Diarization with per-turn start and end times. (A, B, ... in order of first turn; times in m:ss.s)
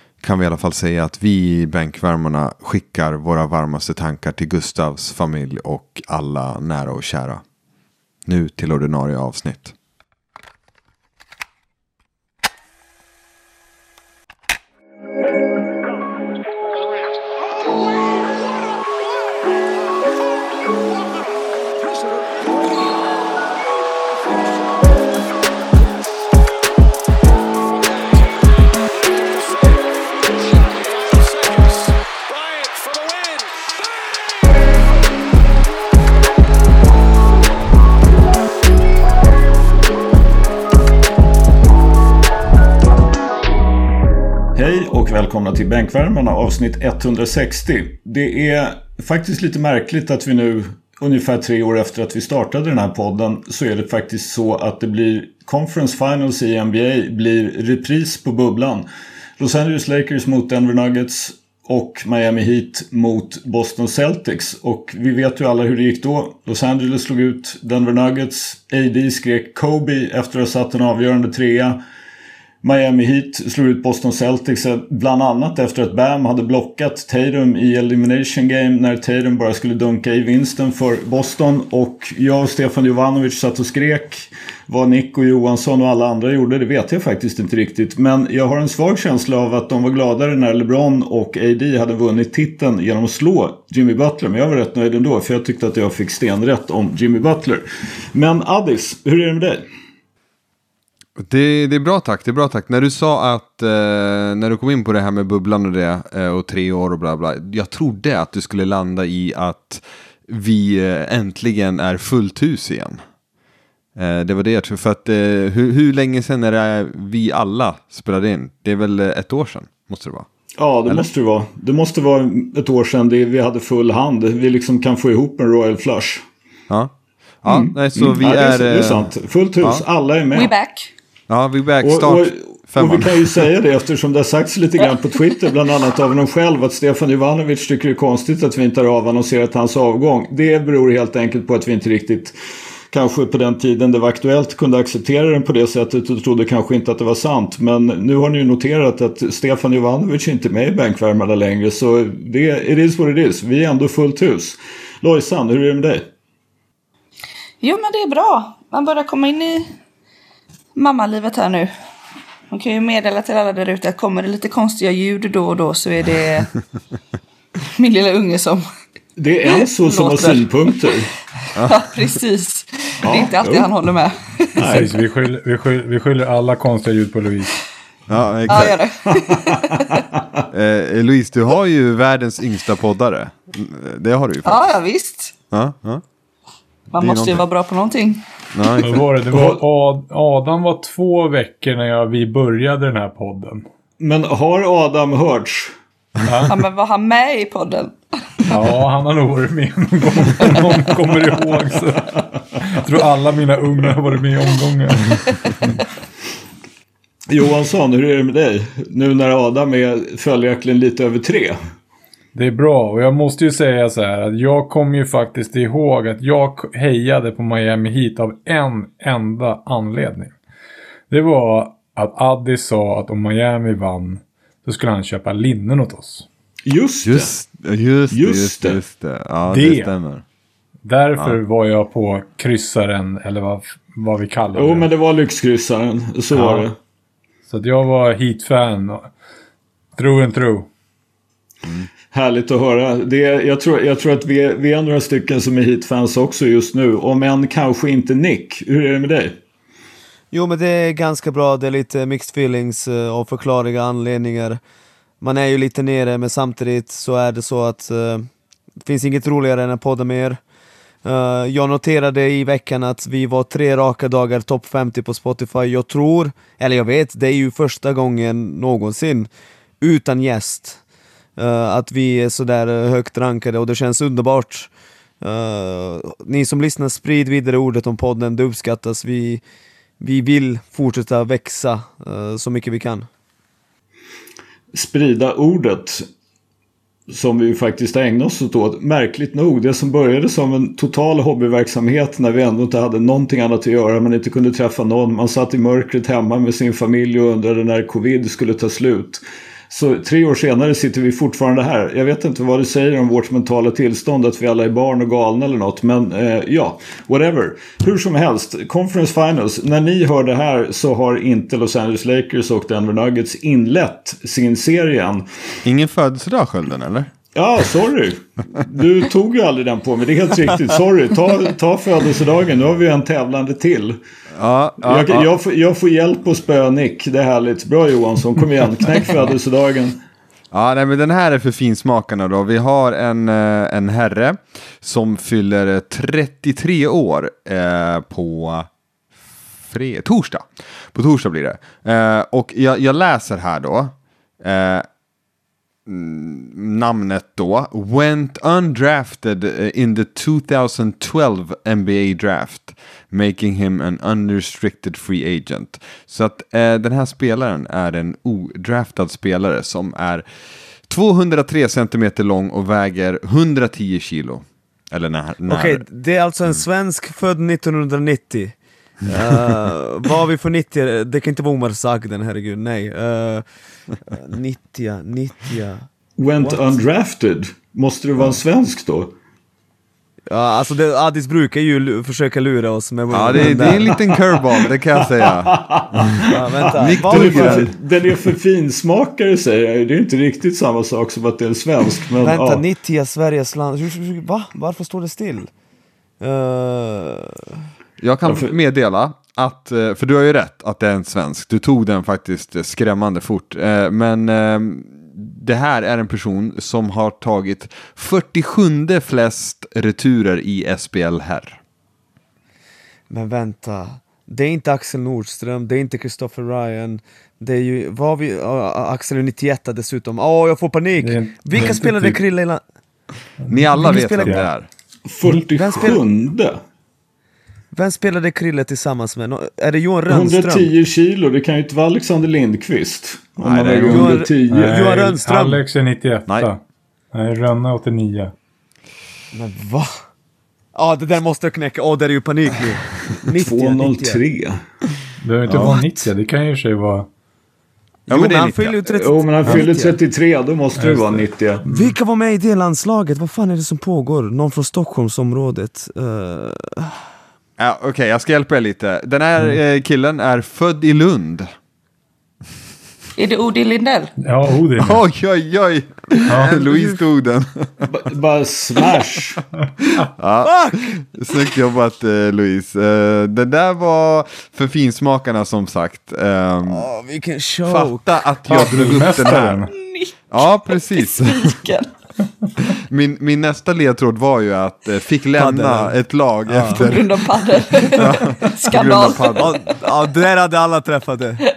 0:00.2-0:07.4 A
0:08.3-0:09.7 A
0:44.5-0:58.9 B
0:59.4-1:11.8 B
1:12.6-1:39.6 B
1:41.2-1:53.0 A
1:54.0-2:00.3 A
2:00.6-2:06.2 B
2:06.7-2:09.1 A
2:07.5-2:10.5 B
2:10.3-2:10.9 C
2:11.3-2:13.4 A
2:11.8-2:22.4 B
2:22.9-2:36.1 B
2:37.6-2:39.7 C
2:40.8-2:41.7 C
2:42.5-2:46.5 C
2:47.8-2:48.7 C
2:49.2-2:51.1 B
2:49.5-2:50.5 C
2:51.6-2:54.8 C
2:51.6-2:51.8 A
2:53.0-2:53.7 B
2:54.6-2:54.9 B
2:54.6-2:57.6 D
2:58.1-2:58.8 A
2:58.5-3:00.0 C
2:59.3-3:00.4 B
3:00.5-3:04.7 A
3:04.4-3:05.3 C
3:05.5-3:06.0 A
3:06.9-3:08.2 C
3:07.0-3:07.5 A
3:08.5-3:09.0 A
3:08.8-3:13.6 D
3:09.3-3:09.6 B
3:14.0-3:15.7 B
3:16.2-3:16.5 D
3:16.5-3:18.0 C
3:18.5-3:25.3 D
3:27.3-3:31.6 B
3:32.3-3:40.3 D
3:41.1-3:46.3 D
3:46.7-3:47.3 B
3:47.0-3:50.2 A
3:48.1-3:48.8 B
3:49.5-3:49.9 D
3:50.8-3:54.9 D
3:54.5-3:56.7 B
3:56.3-3:56.7 D
3:57.5-3:59.1 D
4:00.0-4:00.7 D
4:02.1-4:09.4 B
4:10.3-4:14.6 E
4:15.2-4:18.3 E
4:18.8-4:20.4 E
4:21.0-4:29.3 E
4:29.8-4:30.8 E
4:31.4-4:34.7 E
4:35.2-4:39.4 E
4:40.0-4:43.1 E
4:44.7-4:46.1 B
4:47.1-5:15.3 B
5:15.6-5:17.1 A
5:17.4-5:24.0 B
5:24.4-5:25.3 A
5:24.8-5:30.0 B
5:30.5-5:38.7 A
5:39.7-5:44.9 A
5:45.9-6:00.2 A
6:00.9-6:05.8 A
6:05.5-6:13.4 E
6:14.1-6:15.9 E
6:16.2-6:19.1 B
6:16.4-6:16.7 E
6:20.3-6:24.0 E
6:23.1-6:27.7 A
6:25.5-6:32.6 B
6:26.3-6:27.7 E
6:32.2-6:35.5 E
6:36.2-6:37.6 E
6:38.0-6:51.6 A
6:38.2-6:38.5 B
6:53.1-7:02.6 E
7:01.0-7:02.2 D
7:03.4-7:04.5 D
7:03.5-7:04.7 A
7:03.8-7:04.5 E
7:05.1-7:06.6 B
7:05.6-7:06.0 E
7:07.7-7:10.7 E
7:10.1-7:14.8 B
7:13.4-7:14.2 A
7:13.7-7:15.6 E
7:14.5-7:16.6 D
7:17.1-7:18.3 D
7:19.3-7:19.9 E
7:20.8-7:24.2 E
7:23.4-7:24.6 B
7:25.2-7:27.1 D
7:25.5-7:25.7 A
7:28.1-7:30.0 E
7:28.1-7:28.8 A
7:28.9-7:31.6 B
7:30.8-7:32.0 D
7:31.6-7:37.0 E
7:37.6-7:41.5 A
7:43.2-7:44.1 C
7:44.2-7:45.0 D
7:44.8-7:47.9 A
7:46.3-7:46.6 D
7:46.3-7:47.0 E
7:47.9-7:49.4 B
7:50.2-7:56.9 A
7:50.4-7:50.9 E
7:56.6-7:58.1 E
7:57.7-7:59.7 A
7:58.5-7:59.7 D
7:59.7-8:01.9 C
8:00.3-8:01.6 A
8:02.6-8:09.5 A
8:05.4-8:06.0 E
8:06.5-8:06.9 E
8:06.7-8:09.7 C
8:09.4-8:11.4 E